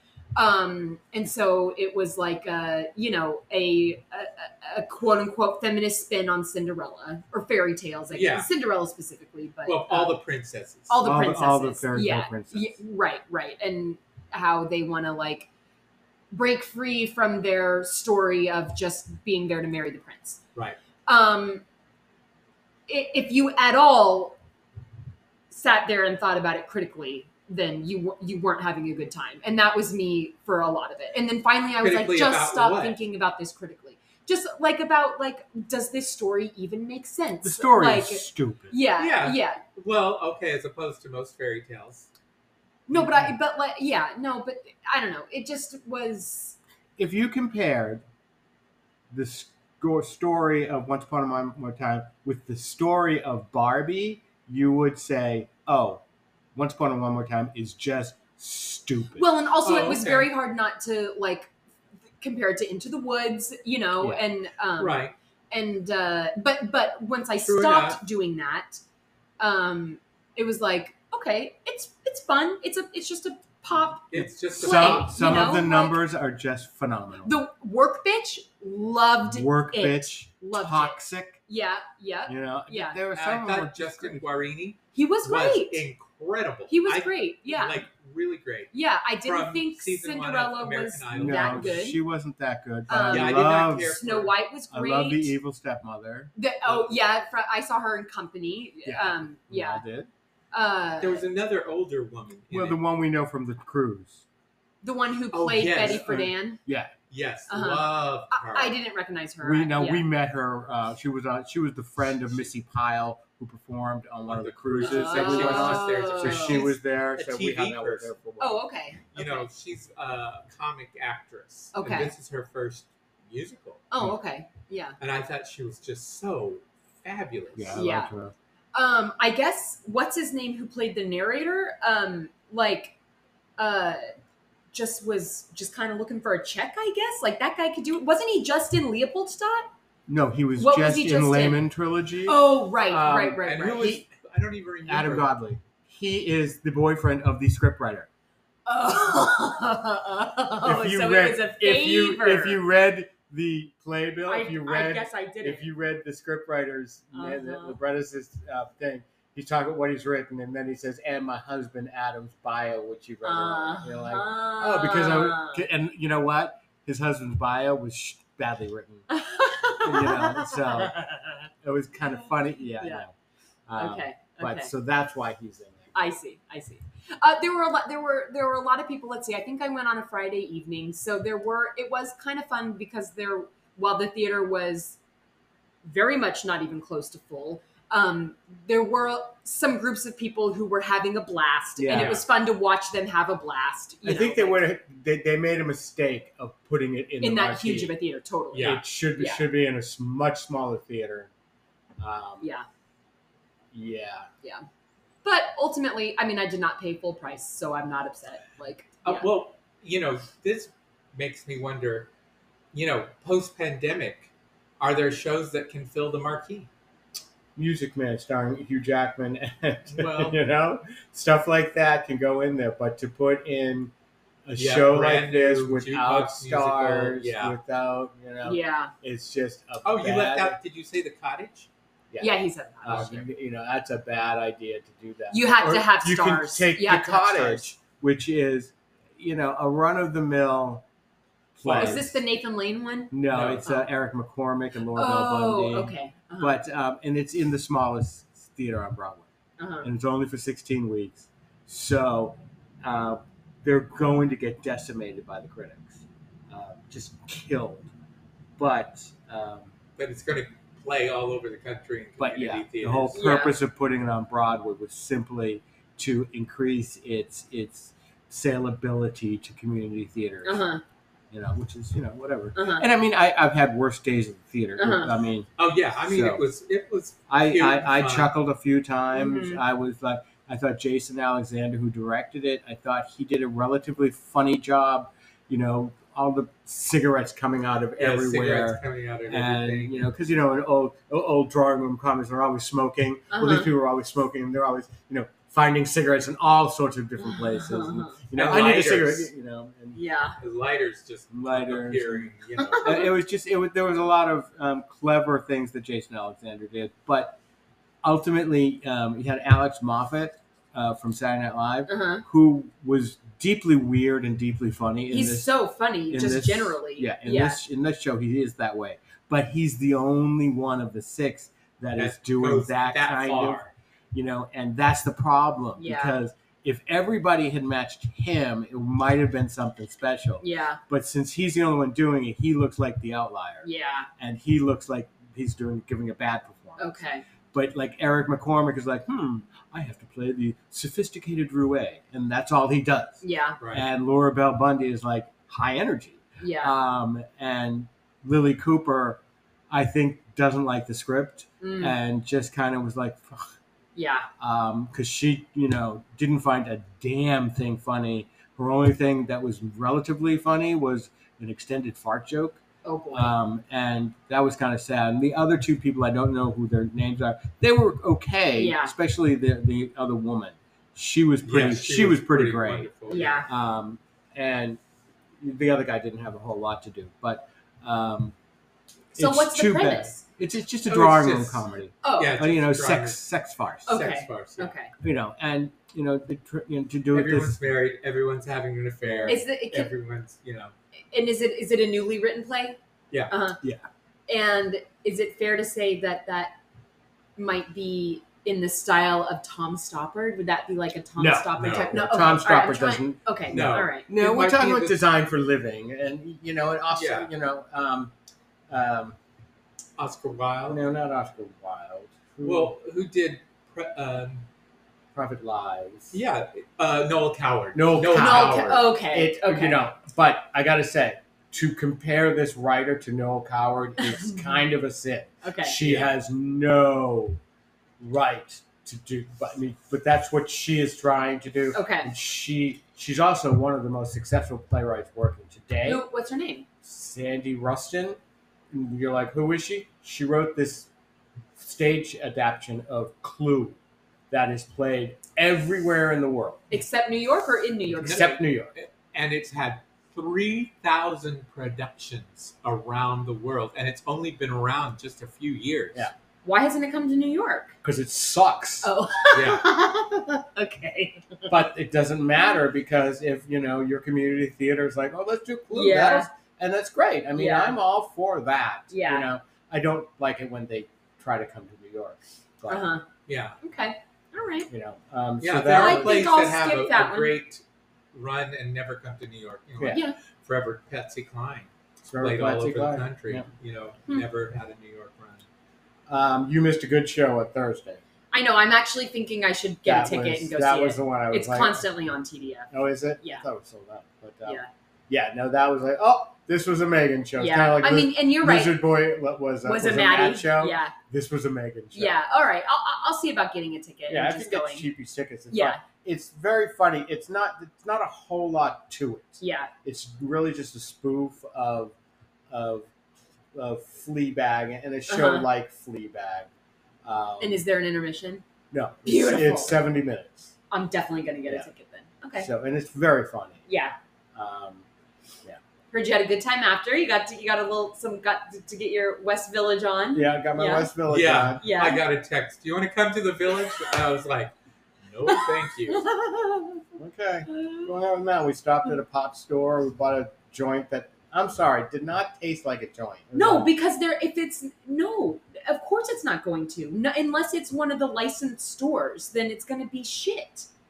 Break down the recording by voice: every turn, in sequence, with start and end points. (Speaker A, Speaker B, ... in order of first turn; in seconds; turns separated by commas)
Speaker A: 0.3-10.2, Speaker B: 8.1-8.5, Speaker B: 9.7-10.9, Speaker A: 10.9-15.5, Speaker C: 11.0-12.8, Speaker A: 16.3-20.4, Speaker A: 21.1-21.6, Speaker A: 22.9-24.4, Speaker A: 25.5-39.6, Speaker B: 31.8-33.0, Speaker C: 37.4-38.7, Speaker B: 39.0-42.1, Speaker A: 42.9-46.6, Speaker C: 42.9-43.3, Speaker C: 47.0-48.0, Speaker C: 49.1-56.0, Speaker C: 56.5-59.2, Speaker A: 59.1-61.5, Speaker B: 59.6-60.3, Speaker A: 62.2-65.0, Speaker B: 64.8-65.1, Speaker A: 65.5-68.8, Speaker B: 67.4-68.0, Speaker A: 69.4-76.0, Speaker B: 74.1-75.7, Speaker C: 74.2-77.3, Speaker A: 77.2-83.0, Speaker C: 79.2-81.4, Speaker C: 82.3-84.2, Speaker B: 83.1-91.8, Speaker A: 84.9-85.8, Speaker A: 86.7-87.8, Speaker A: 88.7-92.0, Speaker C: 91.1-94.0, Speaker A: 92.9-95.3, Speaker B: 92.9-94.3, Speaker C: 94.7-96.3, Speaker A: 96.3-99.8, Speaker C: 98.8-100.1, Speaker A: 100.5-101.2, Speaker B: 101.0-102.8, Speaker C: 102.5-104.2, Speaker A: 104.8-106.6, Speaker B: 105.3-106.1, Speaker C: 105.8-106.9, Speaker B: 107.1-108.8, Speaker A: 107.5-110.0, Speaker C: 109.4-118.6, Speaker B: 114.2-118.1, Speaker A: 114.8-116.7, Speaker A: 118.4-119.5, Speaker B: 119.1-123.9, Speaker A: 121.7-122.1, Speaker A: 123.9-125.0, Speaker B: 125.0-127.8, Speaker C: 127.5-128.3, Speaker A: 127.7-128.1, Speaker A: 128.7-132.9, Speaker A: 133.6-134.1, Speaker A: 134.7-139.7, Speaker C: 140.1-144.0, Speaker A: 140.6-141.6, Speaker A: 142.2-144.0, Speaker B: 143.4-145.3, Speaker C: 144.9-148.1, Speaker A: 148.7-152.6, Speaker C: 150.6-169.1, Speaker A: 154.3-155.7, Speaker A: 157.1-157.8, Speaker A: 163.2-165.7, Speaker A: 169.1-170.9, Speaker C: 169.8-173.1, Speaker A: 172.8-173.0, Speaker C: 173.7-175.9, Speaker A: 173.7-174.7, Speaker A: 175.9-185.0, Speaker A: 185.8-194.7, Speaker C: 191.8-192.2, Speaker C: 194.0-197.9, Speaker A: 197.2-199.5, Speaker B: 198.5-198.8, Speaker C: 198.6-201.3, Speaker C: 202.0-202.5, Speaker A: 202.4-202.7, Speaker C: 203.7-204.3, Speaker A: 205.2-209.3, Speaker B: 209.0-212.1, Speaker B: 212.7-216.7, Speaker C: 217.6-223.9, Speaker B: 219.9-220.4, Speaker C: 224.4-230.6, Speaker B: 224.6-227.6, Speaker A: 228.4-228.9, Speaker B: 229.8-231.7, Speaker C: 232.1-240.8, Speaker A: 232.2-233.2, Speaker B: 232.9-233.2, Speaker A: 235.3-237.7, Speaker C: 241.6-242.2, Speaker B: 241.6-242.0, Speaker A: 241.7-243.8, Speaker C: 243.1-249.3, Speaker B: 243.3-243.7, Speaker A: 244.9-246.6, Speaker A: 249.6-249.9, Speaker C: 249.8-257.9, Speaker C: 258.6-259.7, Speaker B: 260.0-263.2, Speaker C: 262.2-270.6, Speaker A: 263.1-263.6, Speaker A: 270.4-270.8, Speaker C: 271.3-275.5, Speaker A: 272.5-272.9, Speaker A: 274.8-275.1, Speaker B: 275.6-278.3, Speaker C: 276.0-276.4, Speaker C: 277.3-300.0, Speaker A: 279.1-279.6, Speaker B: 288.0-290.0, Speaker A: 293.3-293.7, Speaker A: 297.2-298.2, Speaker B: 298.3-299.3, Speaker A: 299.9-300.4, Speaker B: 300.4-303.1, Speaker C: 301.3-302.3, Speaker A: 302.6-303.1, Speaker C: 302.8-307.4, Speaker C: 308.0-315.5, Speaker A: 311.9-312.2, Speaker A: 315.1-317.6, Speaker C: 316.1-333.7, Speaker B: 321.9-323.7, Speaker A: 325.8-326.2, Speaker A: 330.4-330.8, Speaker A: 333.6-334.1, Speaker C: 334.2-337.0, Speaker A: 336.8-337.2, Speaker C: 337.5-353.5, Speaker A: 343.2-343.6, Speaker B: 343.6-343.9, Speaker A: 346.4-346.7, Speaker A: 351.6-351.9, Speaker A: 353.9-354.3, Speaker C: 354.4-362.6, Speaker A: 362.8-363.3, Speaker C: 363.1-374.8, Speaker A: 368.5-368.9, Speaker B: 371.4-373.4, Speaker A: 373.1-373.5, Speaker C: 375.4-378.3, Speaker C: 379.1-384.0, Speaker A: 379.2-380.2, Speaker B: 380.9-383.2, Speaker A: 382.0-382.4, Speaker B: 383.9-384.7, Speaker A: 383.9-384.9, Speaker C: 385.0-387.6, Speaker B: 387.1-390.7, Speaker C: 389.0-389.4, Speaker A: 389.3-389.9, Speaker A: 391.1-392.8, Speaker A: 393.3-393.6, Speaker A: 394.3-396.6, Speaker A: 397.4-404.1, Speaker C: 401.2-408.1, Speaker B: 401.6-402.0, Speaker B: 403.5-405.0, Speaker B: 406.9-407.3, Speaker C: 408.7-409.2, Speaker B: 410.0-410.8, Speaker C: 410.7-412.7, Speaker B: 412.4-414.4, Speaker C: 415.1-416.1, Speaker B: 416.1-418.8, Speaker C: 417.7-427.4, Speaker A: 418.1-419.8, Speaker A: 424.0-424.5, Speaker A: 425.4-425.8, Speaker B: 425.8-426.1, Speaker C: 428.0-436.0, Speaker A: 431.7-432.1, Speaker A: 435.8-436.6, Speaker C: 436.8-438.2, Speaker C: 438.7-440.9, Speaker C: 441.6-443.8, Speaker C: 444.3-446.7, Speaker A: 446.7-448.4, Speaker B: 448.0-456.1, Speaker C: 448.0-448.7, Speaker A: 456.4-457.7, Speaker C: 457.8-458.9, Speaker A: 458.8-461.5, Speaker B: 459.3-459.7, Speaker C: 461.5-472.9, Speaker A: 465.7-466.3, Speaker A: 467.3-467.8, Speaker A: 468.9-469.3, Speaker A: 472.7-473.1, Speaker B: 473.3-473.6, Speaker A: 473.6-474.7, Speaker C: 474.7-476.3, Speaker B: 475.4-485.4, Speaker A: 475.7-477.3, Speaker A: 479.9-480.1, Speaker C: 482.0-483.5, Speaker C: 486.1-488.0, Speaker A: 488.3-492.7, Speaker C: 489.8-491.8, Speaker C: 492.7-502.1, Speaker A: 497.4-498.8, Speaker A: 499.6-500.9, Speaker A: 501.9-504.9, Speaker C: 504.1-511.9, Speaker A: 505.5-505.8, Speaker A: 509.4-509.7, Speaker C: 512.5-512.9, Speaker C: 513.5-516.5, Speaker A: 515.1-515.5, Speaker C: 517.0-517.6, Speaker A: 517.4-518.4, Speaker C: 518.7-520.5, Speaker A: 519.0-519.8, Speaker A: 520.7-522.5, Speaker C: 522.4-523.6, Speaker A: 523.7-524.0, Speaker C: 524.3-524.8, Speaker A: 525.9-530.9, Speaker C: 530.1-531.6, Speaker B: 531.1-534.5, Speaker A: 531.6-532.0, Speaker B: 535.0-536.0, Speaker A: 535.3-536.9, Speaker C: 537.0-543.7, Speaker A: 537.5-537.9, Speaker A: 543.3-550.7